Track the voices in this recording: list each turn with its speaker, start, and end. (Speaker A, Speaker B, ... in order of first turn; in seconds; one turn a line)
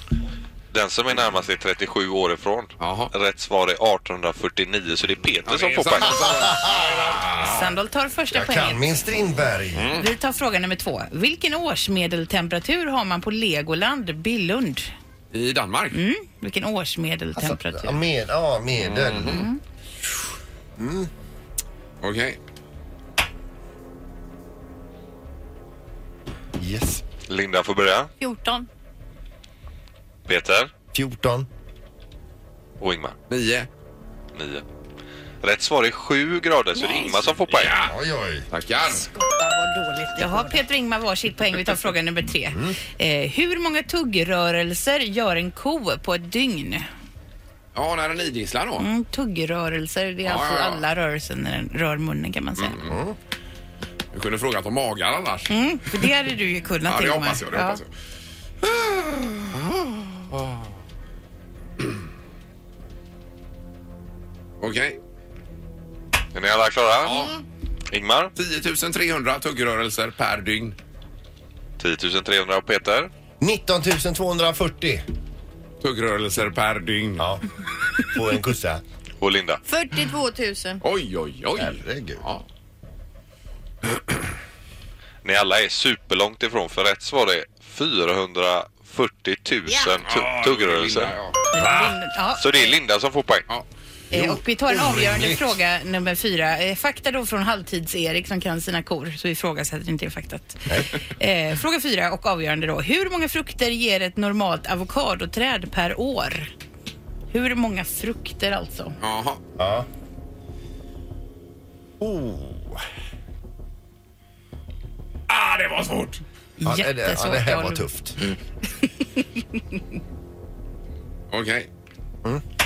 Speaker A: 0.7-6.5
Speaker B: 2.8-3.1
Speaker B: 5.4-7.7
Speaker C: 6.0-7.2
Speaker D: 7.4-8.8
Speaker C: 8.3-9.9
Speaker B: 9.7-10.1
Speaker D: 10.0-14.9
Speaker B: 15.3-16.0
Speaker D: 15.9-18.0
Speaker C: 17.4-19.4
Speaker B: 18.8-19.4
Speaker D: 19.2-19.6
Speaker C: 20.8-21.1
Speaker B: 22.0-22.4
Speaker C: 26.6-27.0
Speaker A: 27.2-28.1
Speaker E: 28.2-28.7
Speaker A: 30.2-30.7
Speaker C: 30.9-31.5
Speaker A: 32.8-33.1
Speaker B: 33.3-33.7
Speaker A: 34.3-34.6
Speaker A: 35.4-37.8
Speaker B: 36.8-37.9
Speaker C: 37.8-38.5
Speaker B: 38.5-39.0
Speaker E: 38.9-40.6
Speaker D: 40.2-46.9
Speaker B: 47.7-48.9
Speaker D: 48.8-52.8
Speaker B: 50.2-50.8
Speaker B: 52.6-53.0
Speaker C: 52.9-53.1
Speaker B: 54.1-56.0
Speaker D: 55.5-57.8
Speaker B: 56.9-57.9
Speaker B: 58.6-60.6
Speaker B: 64.6-65.0
Speaker A: 66.3-67.2
Speaker B: 67.0-67.3
Speaker A: 67.9-68.3
Speaker B: 68.3-70.8
Speaker A: 71.8-73.1
Speaker C: 73.4-75.0
Speaker B: 75.8-77.3
Speaker C: 77.2-77.4
Speaker C: 78.1-78.8
Speaker A: 79.2-79.6
Speaker E: 79.6-80.8
Speaker B: 80.8-82.4
Speaker C: 81.6-82.2
Speaker A: 85.2-91.2
Speaker E: 89.7-90.0
Speaker B: 90.0-91.5
Speaker D: 91.5-92.8
Speaker C: 91.6-91.9
Speaker A: 92.4-93.5
Speaker D: 94.1-106.5
Speaker C: 94.1-95.6
Speaker D: 107.3-109.0
Speaker B: 109.0-109.4
Speaker C: 109.6-109.9
Speaker C: 112.0-112.8
Speaker B: 115.3-116.2
Speaker D: 116.6-117.8
Speaker C: 116.6-118.1
Speaker B: 121.3-121.7